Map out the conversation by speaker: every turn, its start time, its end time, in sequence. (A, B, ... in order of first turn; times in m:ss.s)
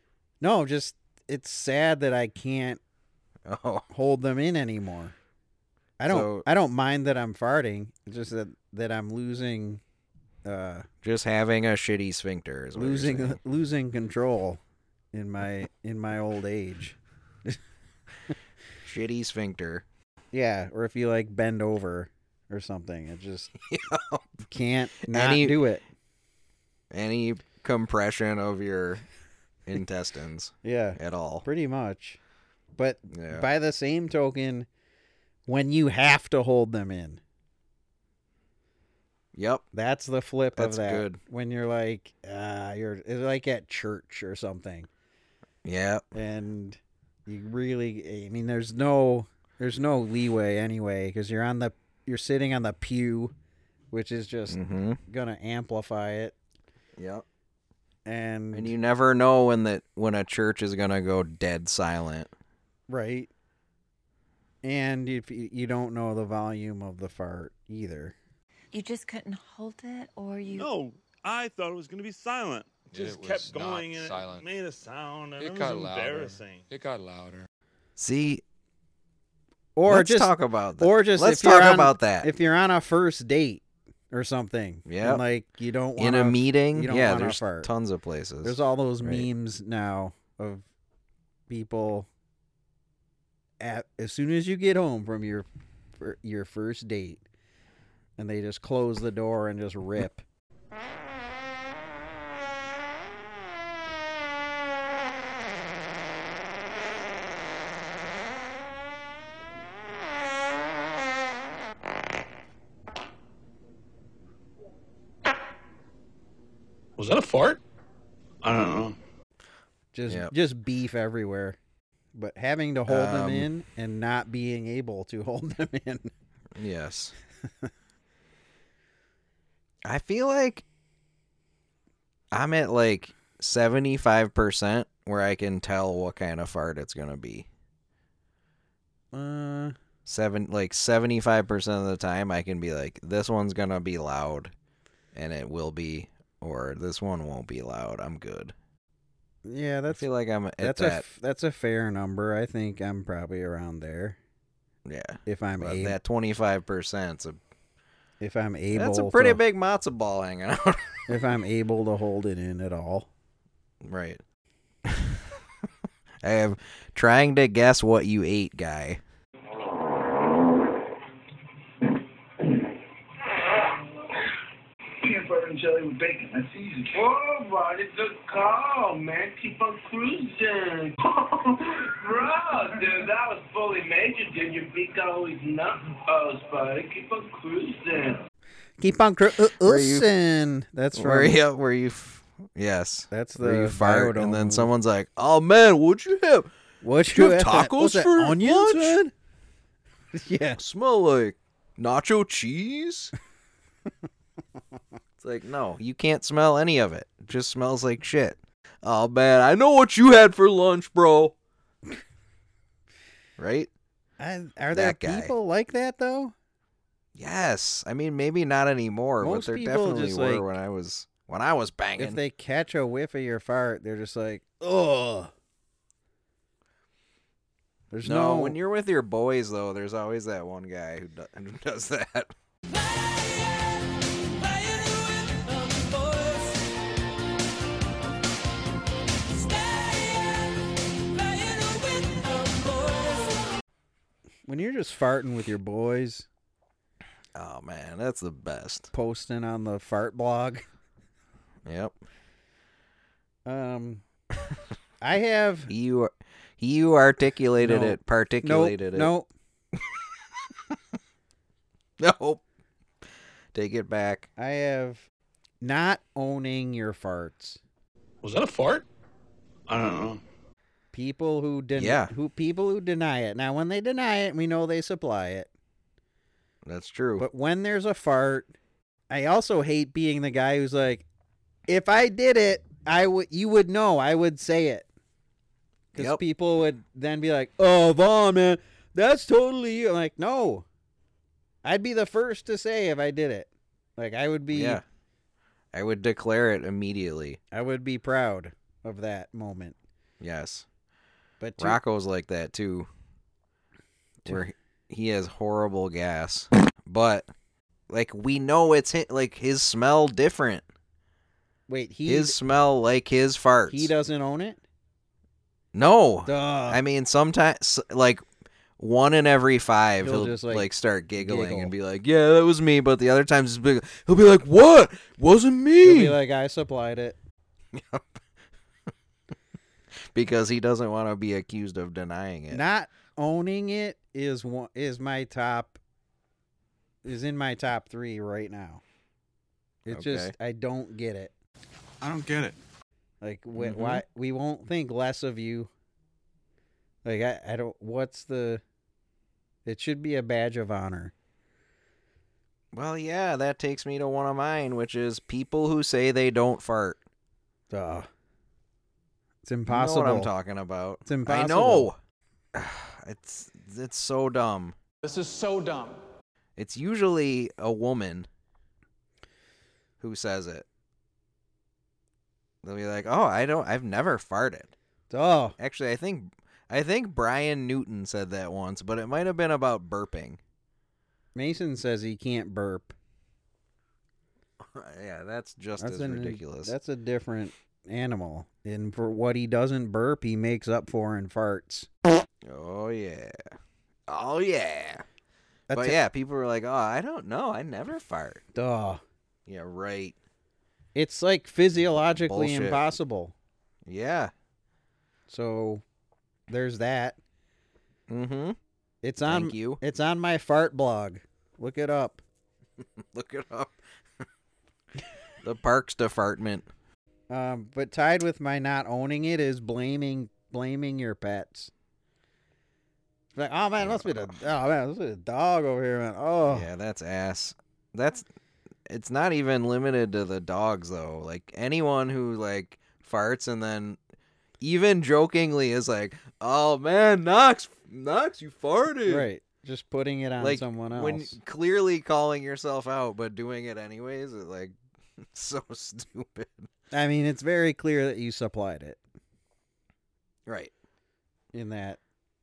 0:00.4-0:02.8 A
0:03.5-0:03.9 B
0:03.9-0:05.1 A
0:06.0-0:09.8 A
0:06.1-0:06.5 B
0:10.5-0:10.9 A
0:11.0-0:13.4 B
0:12.8-0:14.6 A
0:15.1-0:17.6 A
0:18.8-0:19.8 B
0:20.3-0:23.5 A
0:23.6-0:24.4 B
0:24.5-0:25.8 A
0:25.1-0:25.6 B
0:26.9-0:29.0 B
0:29.6-0:31.5 B
0:30.6-0:32.2 A
0:32.8-0:34.7 A
0:33.1-0:33.4 B
0:35.5-0:37.2 A
0:39.3-0:39.6 B
0:39.7-0:44.9 A
0:40.6-0:41.2 B
0:45.6-0:46.0 B
0:46.1-0:53.3 A
0:53.9-0:56.4 A
0:54.5-0:55.0 B
0:57.0-0:57.2 B
0:58.1-0:58.7 A
0:58.5-1:02.3 B
1:02.9-1:03.3 A
1:04.6-1:08.1 A
1:08.7-1:10.7 C
1:10.5-1:16.7 D
1:12.9-1:14.4 E
1:15.4-1:17.5 E
1:18.0-1:18.4 B
1:19.8-1:27.7 A
1:19.9-1:22.3 B
1:24.9-1:25.2 B
1:26.0-1:29.3 B
1:28.4-1:30.6 A
1:31.5-1:32.1 A
1:33.6-1:35.5 A
1:36.0-1:37.2 A
1:38.2-1:40.2 A
1:57.0-1:57.6 D
1:58.4-1:59.0 D
1:59.9-2:01.6 A
2:02.1-2:06.1 A
2:02.9-2:03.5 B
2:06.6-2:07.1 B
2:09.8-2:10.6 B
2:12.3-2:17.5 B
2:19.1-2:19.8 A
2:20.1-2:24.5 B
2:25.1-2:28.5 B
2:29.5-2:30.1 A
2:29.9-2:31.0 B
2:30.6-2:34.2 A
2:34.8-2:37.4 B
2:35.3-2:36.0 A
2:38.2-2:39.4 A
2:38.7-2:41.0 B
2:41.1-2:43.1 A
2:43.8-2:44.2 B
2:44.9-2:45.2 B
2:46.2-2:49.0 B
2:55.0-3:08.2 F
3:08.8-3:11.4 A
3:09.6-3:10.1 B
3:10.9-3:16.5 B
3:13.1-3:14.7 A
3:16.8-3:19.1 A
3:17.1-3:19.0 B
3:20.1-3:20.6 A
3:20.6-3:23.1 B
3:25.2-3:31.4 B
3:33.4-3:33.7 B
3:34.2-3:36.3 A
3:34.7-3:35.3 B
3:37.2-3:42.2 B
3:39.2-3:40.5 A
3:42.0-3:45.3 A
3:47.9-3:48.6 A
3:48.0-3:52.3 B
4:04.5-4:06.3 A
4:07.4-4:08.9 B
4:08.9-4:10.6 A
4:11.6-4:12.0 B
4:13.5-4:14.0 A
4:15.0-4:15.7 A
4:15.7-4:19.1 B
4:17.6-4:19.3 A
4:22.0-4:22.4 B
4:23.5-4:24.3 B
4:24.4-4:25.1 A
4:25.6-4:27.6 A
4:28.2-4:28.8 D
4:29.7-4:30.2 D
4:30.9-4:35.5 A
4:31.8-4:32.1 B
4:36.6-4:37.2 B
4:37.2-4:38.5 A
4:39.1-4:41.1 A
4:41.7-4:44.9 A
4:45.9-4:50.6 A
4:51.6-4:54.8 A
4:54.5-4:54.8 B
4:55.7-4:57.4 B
4:57.5-4:59.8 A
5:00.2-5:00.6 B
5:01.4-5:01.8 A
5:01.6-5:02.9 B
5:04.2-5:07.3 B
5:07.9-5:10.6 B
5:11.7-5:12.4 A
5:12.1-5:13.9 B
5:13.7-5:14.6 A
5:15.7-5:18.2 B
5:16.3-5:16.8 A
5:18.8-5:26.2 B
5:20.0-5:21.7 A
5:25.8-5:27.2 A
5:27.7-5:28.2 B
5:30.1-5:32.6 B
5:32.5-5:35.8 A
5:37.0-5:38.8 A
5:39.9-5:41.3 A
5:39.9-5:40.3 B
5:43.2-5:45.7 A
5:43.6-5:44.0 B
5:47.0-5:48.6 A
5:49.6-5:51.1 A
5:52.7-5:57.0 B
5:57.7-5:58.1 A
5:59.4-6:00.3 A
5:59.7-6:02.0 B
6:01.0-6:01.9 A
6:02.5-6:04.8 B
6:06.6-6:08.3 B
6:10.0-6:10.6 B
6:12.6-6:14.7 B
6:15.1-6:15.6 A
6:15.6-6:20.4 B
6:21.4-6:22.9 A
6:24.6-6:26.7 B
6:25.8-6:31.9 A
6:32.4-6:33.5 B
6:34.1-6:35.0 B
6:35.7-6:36.0 A
6:35.7-6:38.4 B
6:38.5-6:39.0 A
6:39.5-6:40.2 B
6:41.0-6:43.3 A
6:42.0-6:42.8 B
6:43.9-6:44.3 B
6:45.3-6:45.8 A
6:46.5-6:47.2 A
6:48.1-6:48.6 B
6:49.0-6:52.2 A
6:49.2-6:49.8 B
6:52.8-6:53.8 B
6:55.4-6:56.7 B
6:57.3-7:01.7 A
7:03.3-7:06.7 A
7:03.8-7:04.4 B
7:06.5-7:08.3 B
7:08.9-7:14.0 B
7:14.6-7:19.3 B
7:19.1-7:21.4 A
7:20.4-7:24.8 B
7:25.3-7:26.7 B
7:26.9-7:29.0 A
7:30.5-7:30.7 B
7:31.5-7:32.0 A